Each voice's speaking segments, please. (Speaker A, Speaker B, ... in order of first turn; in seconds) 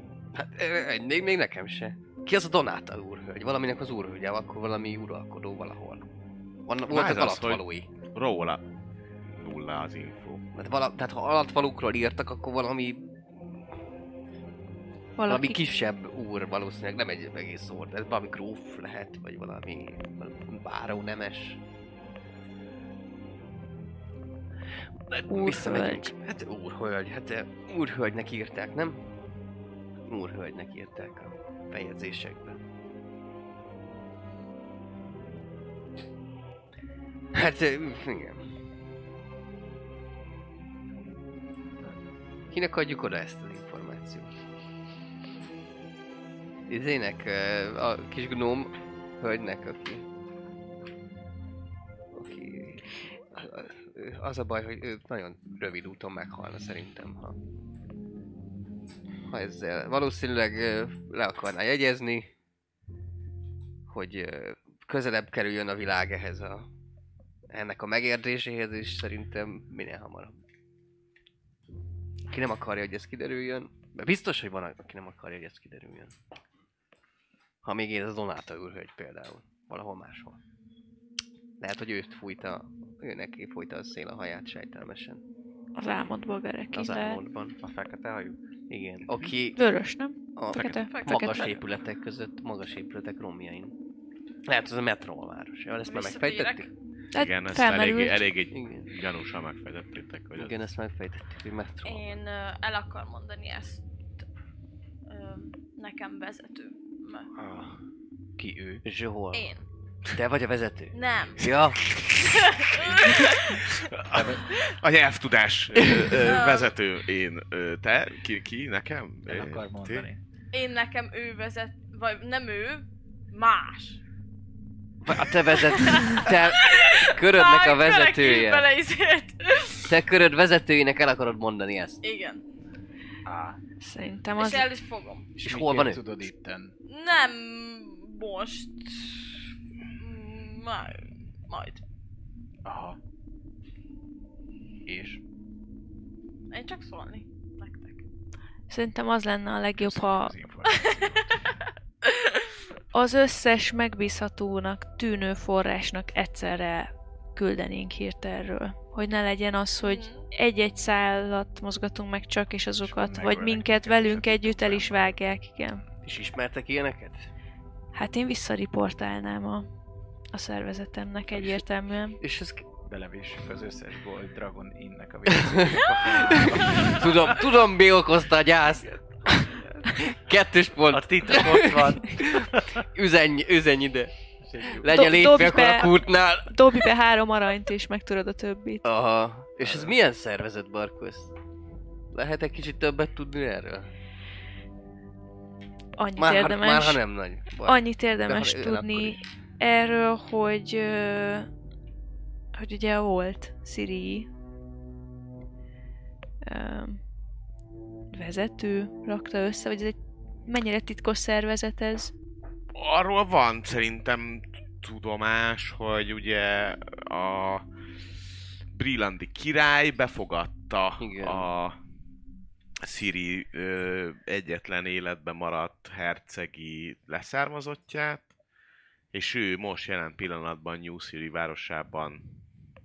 Speaker A: 0.3-6.0, 6.7-7.9, 10.6-13.1, 15.3-21.6, 25.1-29.1, 30.1-32.6, 37.3-38.6, 42.5-44.4, 46.7-50.0, 52.1-57.4, 59.3-62.3, 63.9-66.7, 67.5-70.4, 72.3-76.1, 77.6-80.4, 81.6-85.2, 86.7-87.6, 88.7-89.6, 90.4-93.7, 94.5-96.7, 98.5-98.9, 100.4-102.0, 108.8-109.5, 110.2-112.0, 125.1-128.7, 129.9-132.0, 135.4-136.0, 166.0-167.3, 172.2-172.7, 175.3-184.1, 184.7-186.9, 188.8-191.3, 192.1-193.9, 196.2-199.2, 221.0-221.5
Speaker B: 6.9-8.6, 9.3-10.4, 97.2-100.6, 113.6-120.1, 212.8-217.7, 218.7-221.8, 222.8-228.3, 229.1-232.3
Speaker C: 15.2-15.6, 25.3-26.1, 85.8-87.2, 89.5-91.5, 97.1-98.2, 133.8-134.7, 148.7-150.3, 152.9-165.8, 167.9-169.7, 170.3-172.2, 184.9-188.8, 196.0-197.0, 197.7-201.5, 202.6-204.3, 206.4-207.0, 208.1-212.1
Speaker D: 87.6-88.4, 107.4-107.8, 108.4-108.8, 114.1-114.5, 119.3-120.2, 133.2-133.6, 135.4-136.7, 142.7-143.0, 144.9-145.2, 149.8-151.4, 162.8-165.2, 172.8-177.4, 180.9-182.8, 184.4-185.9, 189.6-189.9
Speaker E: 90.5-91.3, 95.8-96.7, 101.8-103.8, 105.1-107.3, 109.3-109.7, 110.9-111.5, 112.2-113.7, 116.2-116.8, 120.5-124.0, 125.3-129.9, 132.0-132.4, 134.4-135.4, 136.9-139.4, 140.0-141.8, 146.5-148.0, 150.7-151.3, 152.1-152.5, 159.8-160.3, 176.7-177.0